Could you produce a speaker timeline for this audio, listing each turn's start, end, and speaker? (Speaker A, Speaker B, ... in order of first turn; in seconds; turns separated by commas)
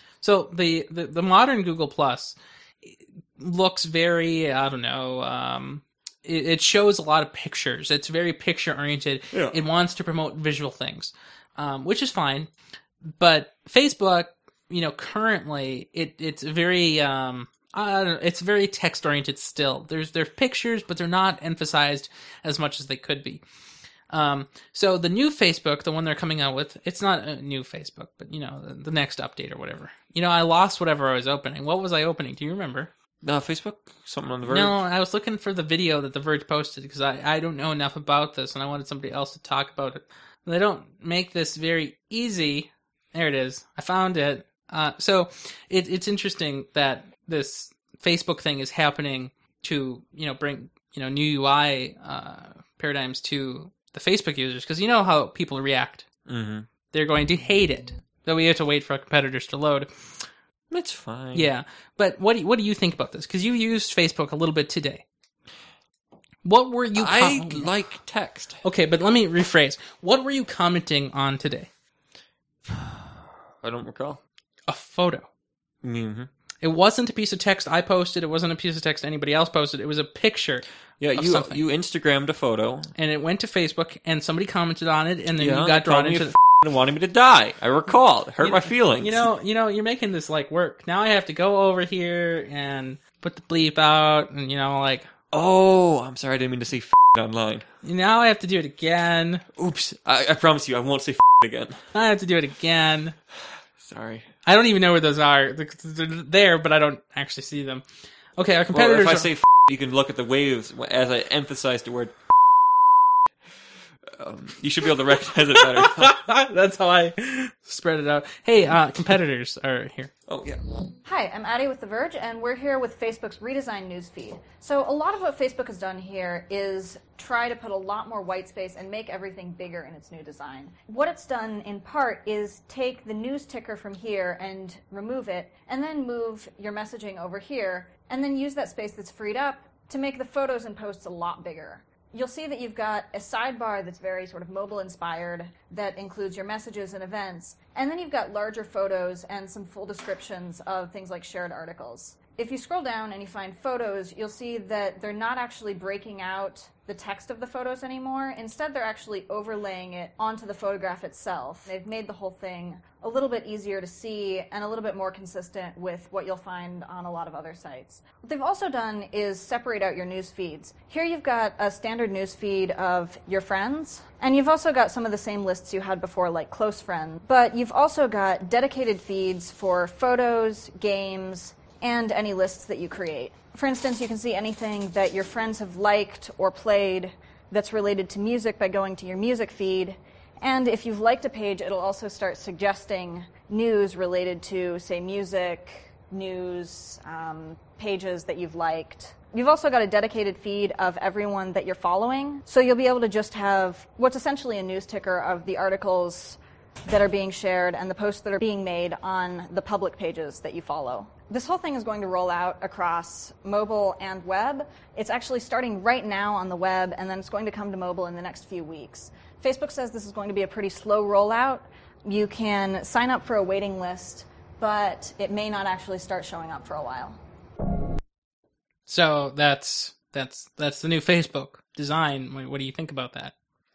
Speaker A: 0.2-12.5, Speaker B: 9.3-9.6, Speaker A: 13.1-23.4, Speaker A: 24.1-32.9, Speaker B: 33.2-34.8, Speaker A: 34.5-56.0, Speaker B: 56.3-56.7, Speaker A: 56.9-59.9, Speaker B: 60.7-61.5, Speaker A: 61.3-65.0, Speaker A: 66.4-67.7, Speaker B: 66.9-68.6, Speaker A: 68.6-71.7, Speaker B: 73.6-74.2, Speaker A: 74.7-75.3, Speaker B: 75.8-76.3, Speaker A: 76.6-80.6, Speaker B: 81.0-82.9, Speaker A: 81.1-81.6, Speaker A: 82.9-86.3, Speaker B: 85.4-89.3, Speaker A: 88.4-95.1, Speaker B: 95.3-97.6, Speaker A: 97.8-99.5, Speaker B: 99.5-101.8, Speaker A: 101.9-103.2, Speaker B: 103.8-104.2, Speaker A: 104.5-107.8, Speaker A: 108.4-109.3, Speaker B: 108.7-112.1, Speaker B: 114.1-116.2, Speaker A: 115.5-120.1, Speaker B: 120.3-120.6, Speaker C: 121.0-227.2, Speaker A: 228.9-233.3